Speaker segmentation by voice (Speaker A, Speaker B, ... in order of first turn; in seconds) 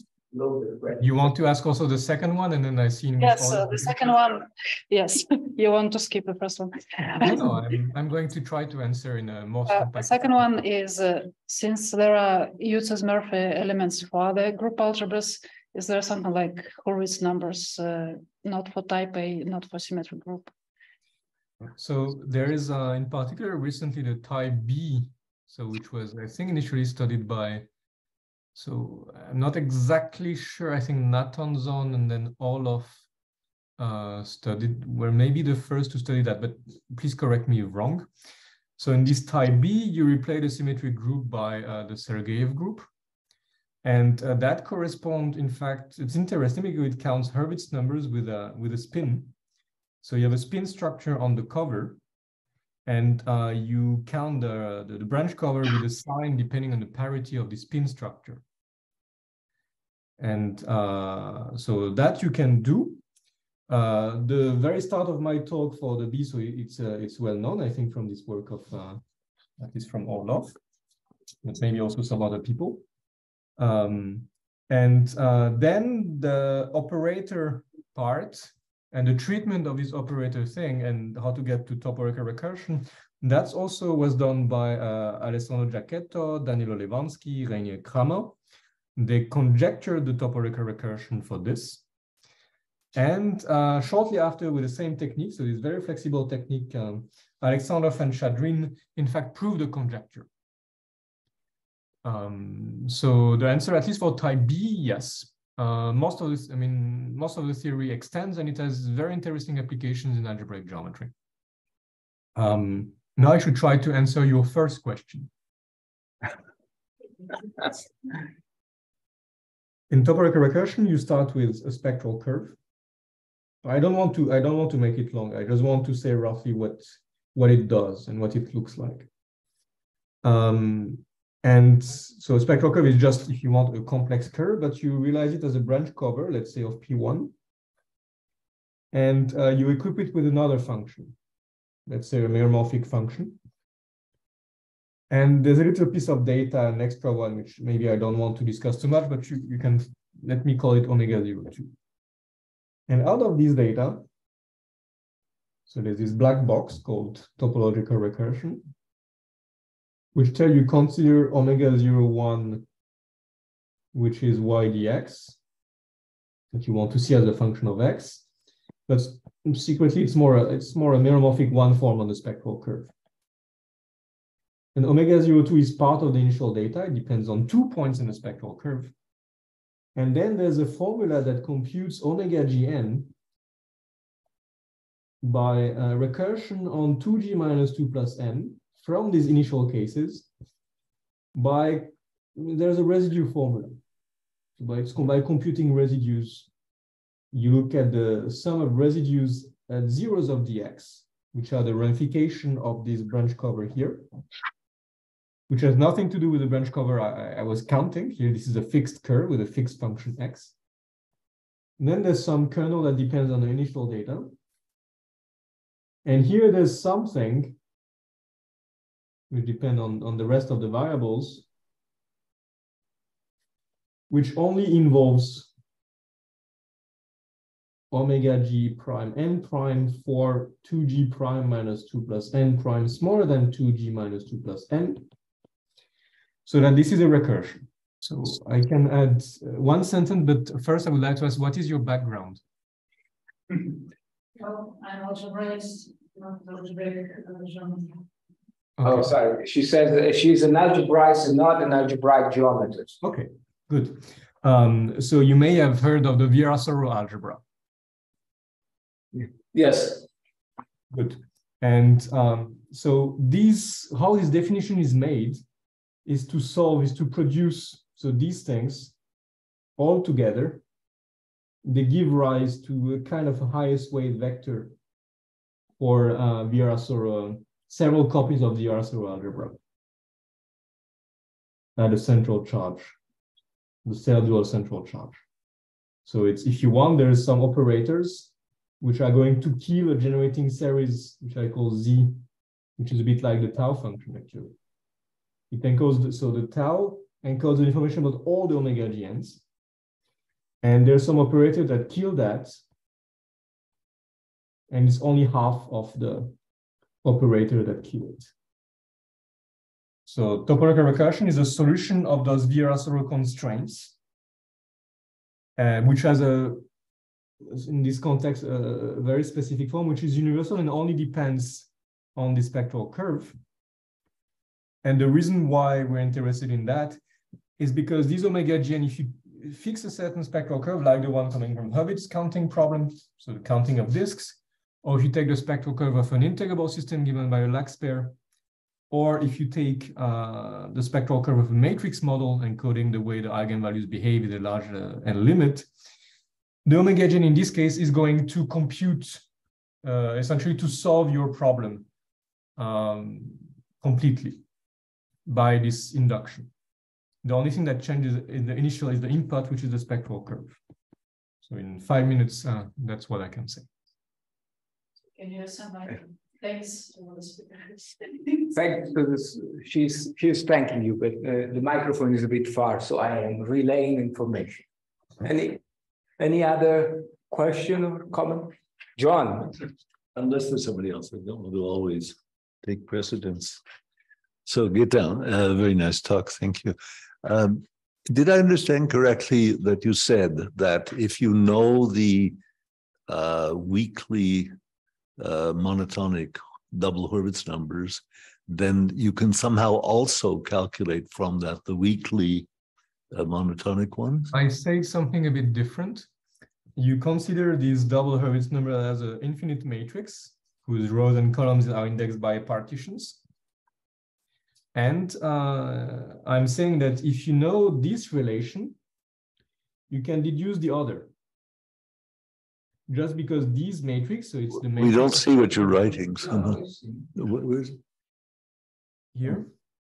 Speaker A: 0.3-1.1, 248.8-253.0, 259.1-260.1, 368.5-374.6, 375.2-375.6, 376.2-379.6, 426.2-427.1
Speaker B: 1.0-4.1, 7.2-10.6, 21.8-27.7, 28.6-33.0, 33.8-38.1, 38.8-42.9, 43.8-49.3, 50.0-52.0, 52.9-58.4, 60.2-63.0, 63.7-69.0, 69.6-70.6, 71.4-72.8, 73.6-88.4, 89.0-91.8, 93.0-100.3, 102.0-111.1, 112.4-115.3, 119.9-122.6, 123.6-129.1, 130.2-137.3, 138.9-141.2, 141.9-143.4, 145.1-151.7, 152.9-154.1, 155.7-158.7, 160.1-162.7, 163.9-165.4, 166.5-168.3, 168.9-172.9, 174.8-178.9, 179.9-183.1, 185.2-190.3, 191.3-193.8, 194.6-196.5, 197.3-204.1, 205.5-210.6, 211.8-214.4, 216.1-217.6, 219.3-221.5, 224.1-225.5, 227.9-235.1, 236.5-242.4, 248.8-249.2, 253.0-257.4, 260.9-265.4, 266.1-268.9, 269.8-270.6, 271.6-274.8, 275.8-279.6, 281.8-283.0, 283.9-285.2, 286.1-292.2, 292.8-294.6, 295.5-299.4, 300.6-302.6, 304.7-306.3, 307.0-308.3, 310.1-314.0, 315.6-316.6, 317.4-323.4, 324.8-327.0, 327.6-338.2, 338.9-345.7, 346.6-349.3, 349.8-351.9, 352.6-354.4, 355.3-356.5, 357.2-360.6, 361.4-363.7, 404.3-406.1, 406.8-413.2, 414.8-418.8, 419.9-421.1, 422.9-426.0, 429.1-429.5
Speaker C: 3.2-7.4, 9.7-20.5, 244.4-248.0, 365.1-368.5
Speaker D: 380.1-383.6, 384.5-392.4, 393.1-394.5, 395.2-402.5, 403.1-404.3, 424.7-426.6, 427.1-427.8